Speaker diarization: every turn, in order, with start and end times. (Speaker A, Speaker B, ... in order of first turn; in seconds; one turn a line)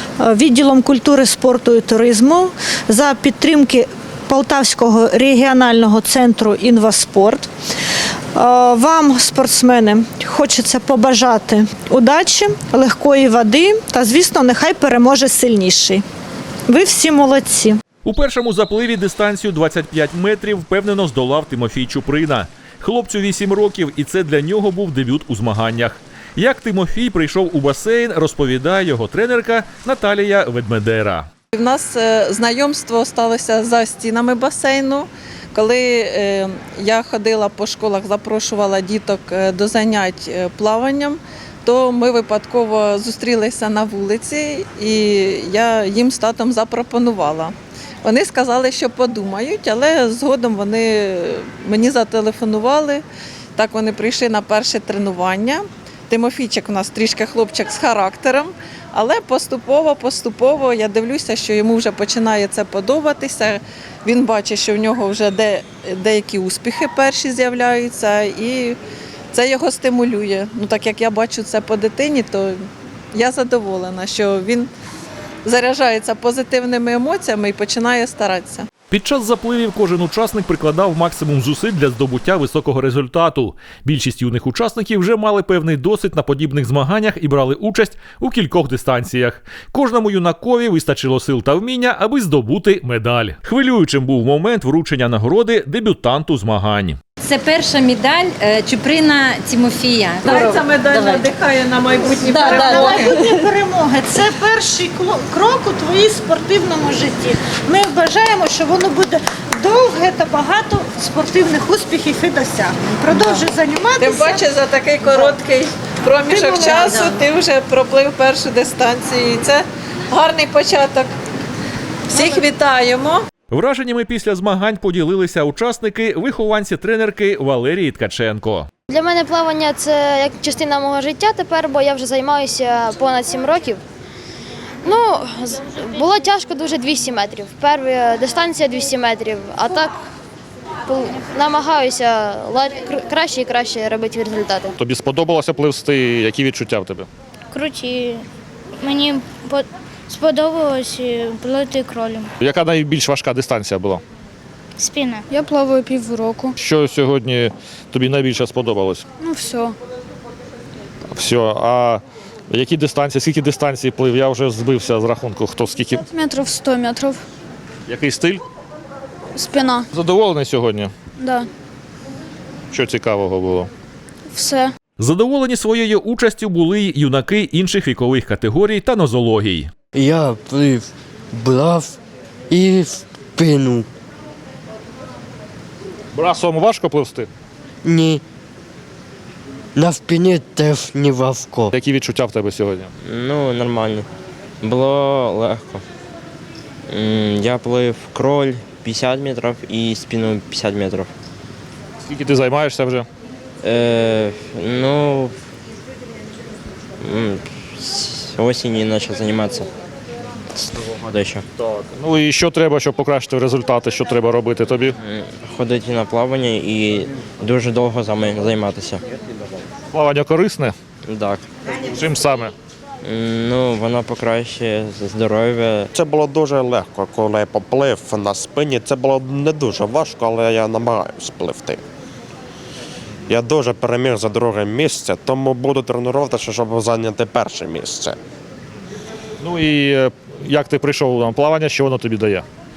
Speaker A: 0.2-7.5
Speaker A: 8.3-16.0
Speaker A: 16.7-17.8
Speaker B: 18.0-31.3
Speaker C: 31.5-53.0
Speaker C: 53.6-68.8
Speaker C: 69.3-72.6
Speaker C: 73.1-74.7
Speaker C: 75.4-78.7
Speaker B: 78.9-97.0
Speaker D: 97.2-101.3
Speaker C: 100.2-103.5
Speaker A: 102.2-114.5
Speaker C: 113.2-113.4
Speaker C: 114.0-121.1
Speaker A: 116.3-117.0
Speaker C: 122.1-123.2
Speaker B: 123.5-128.7
Speaker E: 128.9-133.8
Speaker E: 134.8-140.0
Speaker E: 140.8-144.7
Speaker F: 144.8-147.1
Speaker G: 147.5-148.2
Speaker G: 148.8-152.3
Speaker F: 152.4-154.0
Speaker G: 154.8-155.3
Speaker H: 155.3-156.5
Speaker F: 156.6-159.0
Speaker H: 159.2-159.8
Speaker F: 161.1-166.0
Speaker H: 166.0-167.2
Speaker F: 167.9-168.4
Speaker H: 169.3-169.8
Speaker F: 169.9-170.9
Speaker H: 171.2-171.5
Speaker F: 172.7-173.7
Speaker H: 174.3-174.7
Speaker B: 175.0-179.7
Speaker I: 179.9-182.0
Speaker I: 182.5-183.9
Speaker F: 186.1-187.3
Speaker I: 187.8-188.2
Speaker I: 189.8-191.7
Speaker F: 191.7-192.9
Speaker J: 193.0-194.1
Speaker J: 194.6-195.8
Speaker J: 196.9-201.1
Speaker F: 202.1-203.1
Speaker J: 203.6-205.3
Speaker J: 207.0-209.7
Speaker J: 210.5-211.4
Speaker F: 211.9-214.9
Speaker J: 215.0-219.0
Speaker F: 219.9-220.7
Speaker J: 221.1-221.5
Speaker F: 221.9-222.5
Speaker J: 223.0-225.9
Speaker K: 225.9-231.8
Speaker K: 233.3-238.2
Speaker F: 239.4-242.4